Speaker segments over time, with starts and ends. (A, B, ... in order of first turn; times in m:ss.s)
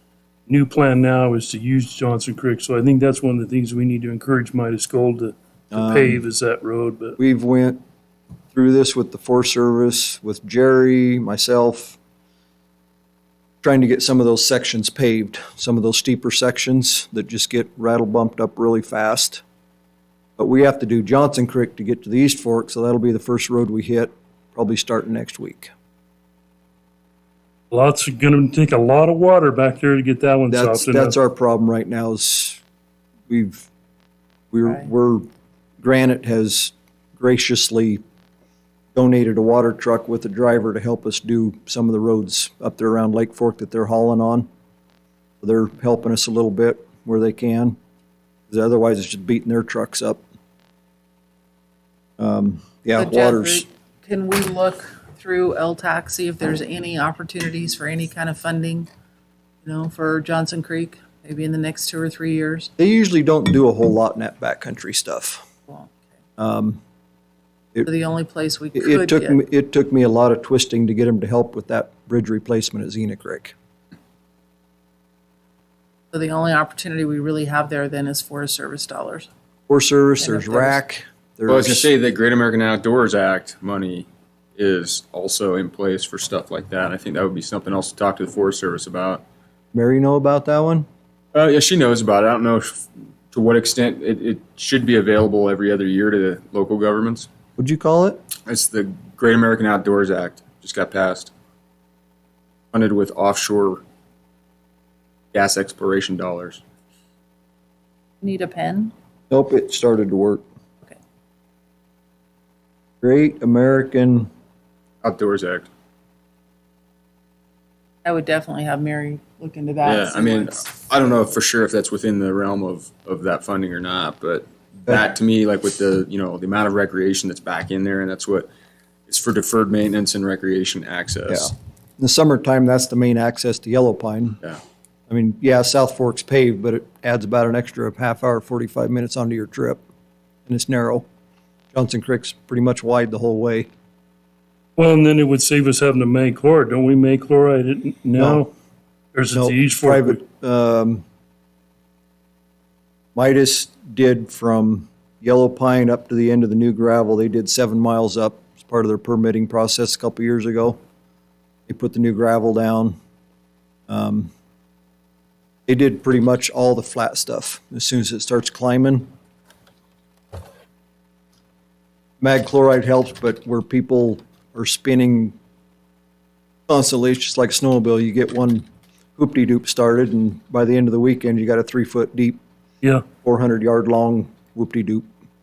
0:00.5-0:07.2 A
0:05.7-0:06.2 B
0:07.2-0:07.8 B
0:08.5-0:12.0 B
0:13.6-0:19.4 B
0:20.4-0:25.7 B
0:27.7-0:31.2 A
0:30.5-0:32.6 B
0:33.3-0:33.7 B
0:34.5-0:35.3 B
0:35.8-0:38.0 B
0:38.9-0:44.5 B
0:45.4-0:47.8 B
0:48.5-0:50.2 B
0:52.2-0:53.7 B
0:53.0-0:58.9 C
0:59.6-1:02.7 C
1:02.8-1:05.4 B
1:05.7-1:06.0 C
1:06.4-1:06.8 B
1:07.8-1:09.4 C
1:08.7-1:13.5 B
1:16.1-1:19.3 C
1:19.7-1:21.9 B
1:20.2-1:20.8 C
1:21.5-1:29.2 D
1:29.7-1:30.9 B
1:31.3-1:37.3 D
1:37.6-1:38.2 B
1:38.4-1:41.3 D
1:42.7-1:43.8 D
1:45.3-1:46.6 D
1:48.2-1:48.9 C
1:49.3-1:50.4 B
1:53.0-1:54.3 B
1:55.0-1:55.7 D
1:58.0-2:00.7 C
1:59.8-2:08.5 D
2:09.1-2:11.5 D
2:11.3-2:14.4 B
2:15.1-2:19.8 B
2:20.5-2:21.1 B
2:21.7-2:23.7 B
2:24.8-2:28.5 A
2:28.2-2:28.4 B
2:29.1-2:30.2 A
2:29.3-2:31.0 B
2:33.1-2:40.8 B
2:41.7-2:43.0 B
2:43.9-2:44.3 B
2:45.7-2:49.1 B
2:52.2-2:55.4 B
2:56.7-2:58.6 B
2:59.2-3:02.4 B
3:03.2-3:05.1 B